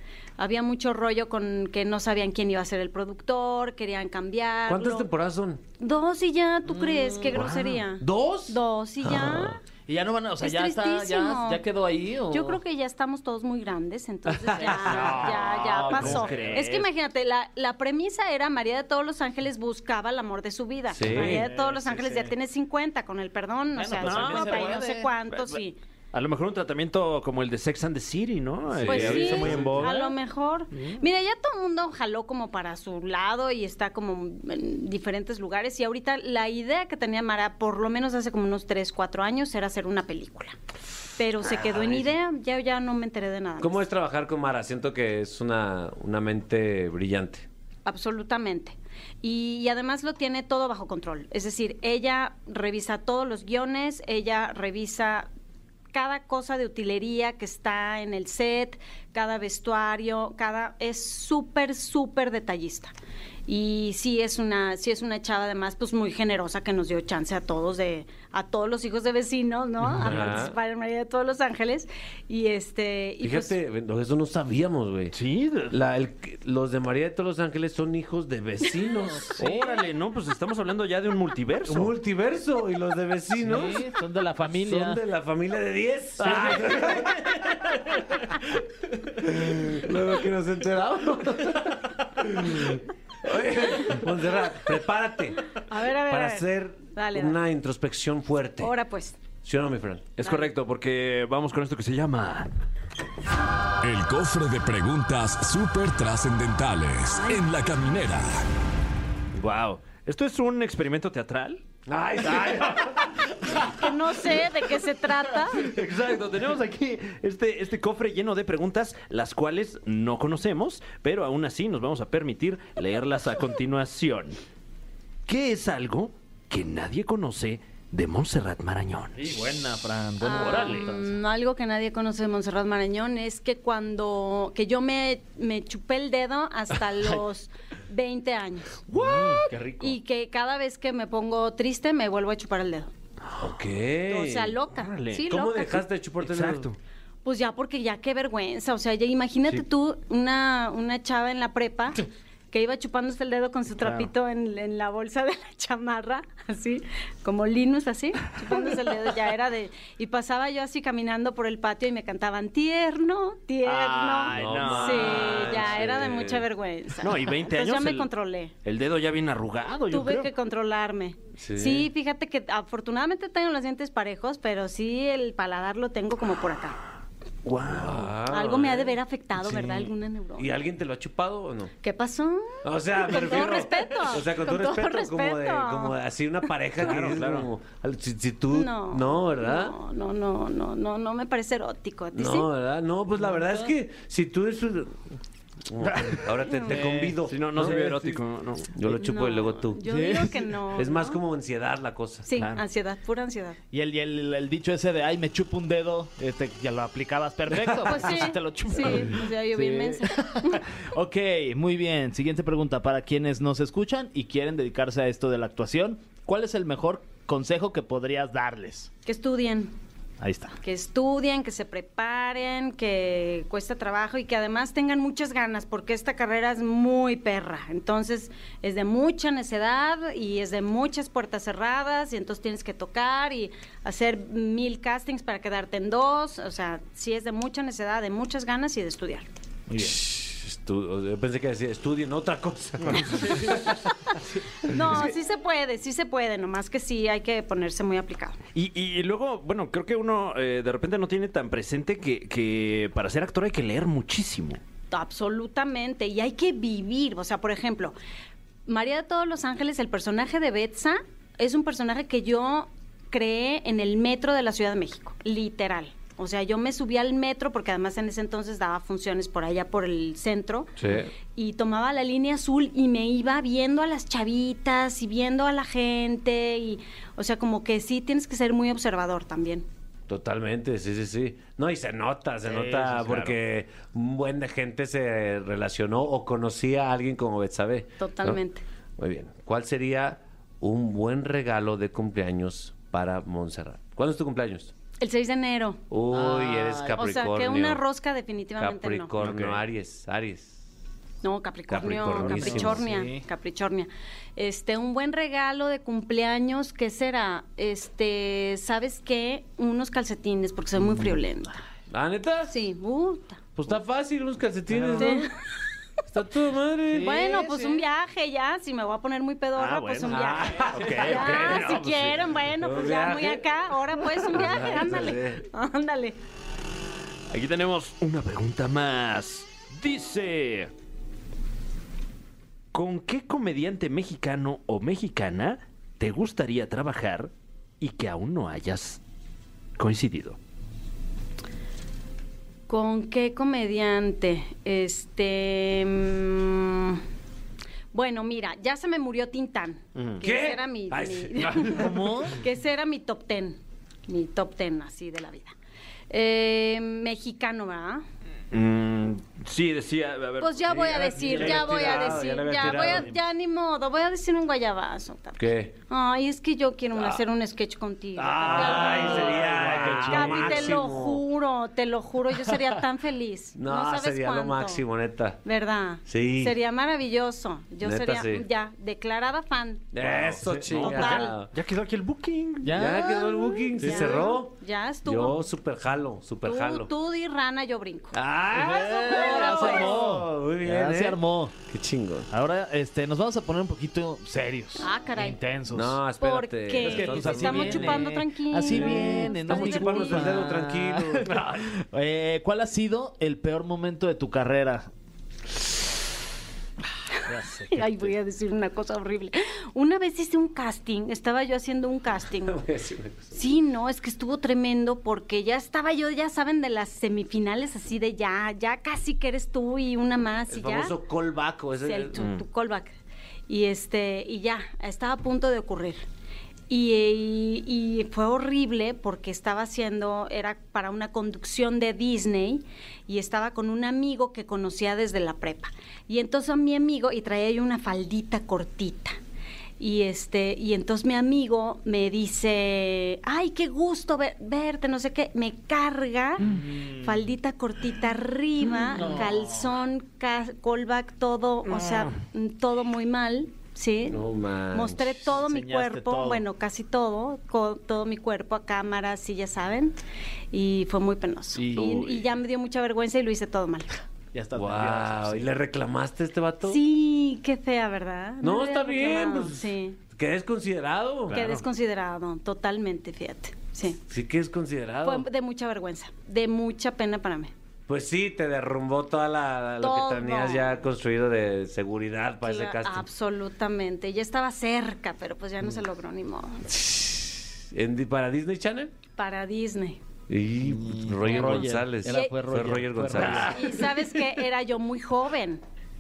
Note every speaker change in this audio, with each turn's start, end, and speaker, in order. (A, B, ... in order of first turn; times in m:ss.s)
0:00.4-0:05.1 A
0:04.7-0:05.6 B
0:05.8-0:09.6 A
0:06.7-0:07.3 C
0:07.3-0:07.8 D
0:08.0-0:09.6 B
0:09.9-0:12.6 C
0:10.4-0:11.6 A
0:12.3-0:25.8 A
0:14.3-0:15.0 B
0:14.6-0:16.8 C
0:14.9-0:16.8 D
0:20.9-0:21.5 B
0:21.1-0:22.3 C
0:21.1-0:21.4 D
0:23.8-0:25.1 C
0:24.0-0:25.6 D
0:26.1-0:30.0 D
0:28.7-0:29.9 B
0:28.9-0:40.6 A
0:29.1-0:30.1 C
0:30.7-0:31.0 D
0:41.2-0:43.8 A
0:41.8-0:42.0 D
0:43.6-0:47.5 B
0:47.8-0:55.3 A
0:55.9-1:02.9 A
1:03.5-1:13.6 A
1:10.0-1:10.6 B
1:10.0-1:10.4 D
1:13.2-1:15.2 B
1:15.1-1:15.8 D
1:15.7-1:19.4 B
1:19.2-1:19.8 C
1:19.4-1:21.9 D
1:21.7-1:23.9 B
1:23.4-1:25.0 C
1:24.4-1:27.8 B
1:26.2-1:27.0 C
1:29.1-1:38.7 B
1:35.6-1:37.4 A
1:38.6-1:39.2 A
1:39.4-1:40.1 B
1:40.2-1:42.5 D
1:40.2-1:40.5 A
1:43.8-1:48.4 E
1:47.1-1:47.5 A
1:49.4-1:51.6 D
1:51.9-1:53.2 B
1:52.2-1:53.8 D
1:53.6-1:55.7 A
1:55.6-2:04.4 D
2:05.3-2:09.3 D
2:09.2-2:11.1 C
2:10.2-2:18.8 A
2:10.3-2:10.9 D
2:18.9-2:19.9 D
2:19.0-2:19.6 C
2:19.8-2:22.9 A
2:23.4-2:24.6 B
2:24.1-2:25.8 A
2:24.7-2:25.3 D
2:25.3-2:26.7 B
2:26.2-2:26.8 D
2:27.2-2:48.5 A
2:33.8-2:34.1 D
2:43.6-2:46.1 D
2:44.3-2:46.5 B
2:47.0-2:48.1 D
2:48.6-2:50.3 D
2:49.9-2:56.8 A
2:51.4-2:51.9 B
2:57.4-2:58.2 D
2:57.7-2:59.0 B
2:58.3-3:00.5 A
3:00.4-3:01.7 B
3:01.8-3:06.0 A
3:02.6-3:09.8 B
3:06.8-3:07.5 D
3:08.5-3:12.5 A
3:12.1-3:15.0 B
3:15.7-3:18.2 B
3:16.5-3:16.8 A
3:16.7-3:17.8 C
3:17.2-3:18.7 D
3:18.7-3:19.8 B
3:18.9-3:21.2 A
3:19.8-3:20.5 C
3:20.7-3:22.3 B
3:22.3-3:23.6 A
3:22.4-3:22.6 D
3:23.7-3:38.9 C
3:27.8-3:30.6 A
3:39.1-3:39.7 A
3:40.2-3:40.6 C
3:40.6-3:59.3 A
3:59.7-4:00.0 C
3:59.8-4:03.9 B
4:04.6-4:08.4 A
4:04.7-4:05.0 B
4:08.5-4:14.6 D
4:14.9-4:18.0 A
4:18.7-4:30.7 A
4:30.8-4:31.1 B
4:31.4-4:39.6 A
4:40.1-4:48.4 B
4:42.5-4:43.4 C
4:48.0-4:48.6 A
4:49.0-4:54.7 B
4:55.0-4:55.8 A
4:55.9-4:57.8 B
4:56.1-4:57.0 C
4:57.0-4:59.1 A
4:58.6-5:00.6 B
4:59.2-4:59.6 D
5:01.2-5:11.6 A
5:01.7-5:02.8 B
5:02.2-5:03.2 C
5:11.9-5:12.5 B
5:12.5-5:13.4 A
5:13.6-5:15.3 B
5:14.7-5:15.0 C
5:15.0-5:15.3 A
5:16.0-5:17.5 B
5:16.9-5:17.8 C
5:17.0-5:26.2 A
5:19.6-5:22.1 D
5:20.0-5:23.5 B
5:24.0-5:25.4 B
5:27.3-5:30.7 D
5:32.7-5:39.0 D
5:39.8-5:40.4 D
5:42.7-5:47.0 A
5:47.9-5:55.5 A
5:50.0-5:50.2 D
5:50.2-5:52.2 B
5:51.7-5:52.4 C
5:56.1-5:58.0 A
5:58.5-6:02.2 D
6:00.4-6:14.8 A
6:00.9-6:03.2 B
6:05.4-6:05.7 B
6:08.2-6:11.2 B
6:08.6-6:10.8 C
6:13.6-6:15.4 B
6:15.4-6:19.9 A
6:16.1-6:16.6 B
6:17.8-6:18.5 B
6:19.9-6:21.5 B
6:20.0-6:22.8 D
6:20.8-6:21.4 A
6:22.6-6:23.2 C
6:22.7-6:26.9 B
6:22.8-6:25.4 A
6:26.4-6:28.2 A
6:28.1-6:32.3 B
6:28.5-6:31.5 C
6:29.1-6:29.9 A
6:32.3-6:36.0 C
6:34.8-6:35.4 A
6:35.7-6:38.1 B
6:36.2-6:40.5 A
6:36.8-6:44.9 C
6:38.7-6:41.4 B
6:47.3-6:48.1 C
6:47.7-6:52.6 A
6:52.4-6:53.4 B
6:53.3-7:00.9 A
7:00.5-7:02.2 B
7:01.8-7:02.9 A
7:02.2-7:02.4 D
7:03.5-7:06.0 A
7:06.7-7:19.2 A
7:19.8-7:40.0 A
7:26.4-7:27.2 C
7:28.9-7:29.7 C
7:34.0-7:35.3 B
7:35.3-7:36.4 C
7:40.5-7:43.9 A
7:41.6-7:42.1 C
7:41.8-7:42.2 D
7:44.3-7:45.5 C
7:44.6-7:46.8 B
7:46.6-7:50.0 A
7:48.4-7:51.4 B
7:51.3-7:51.6 D
7:51.3-7:54.0 A
7:54.1-7:55.3 B
7:55.0-7:57.5 A
7:57.9-8:03.1 B
7:59.8-8:00.8 A
8:02.4-8:06.6 A
8:06.7-8:08.9 B
8:09.2-8:10.0 A
8:10.3-8:13.7 B
8:10.6-8:13.8 C
8:12.1-8:12.3 A
8:13.2-8:13.5 D
8:13.4-8:15.6 A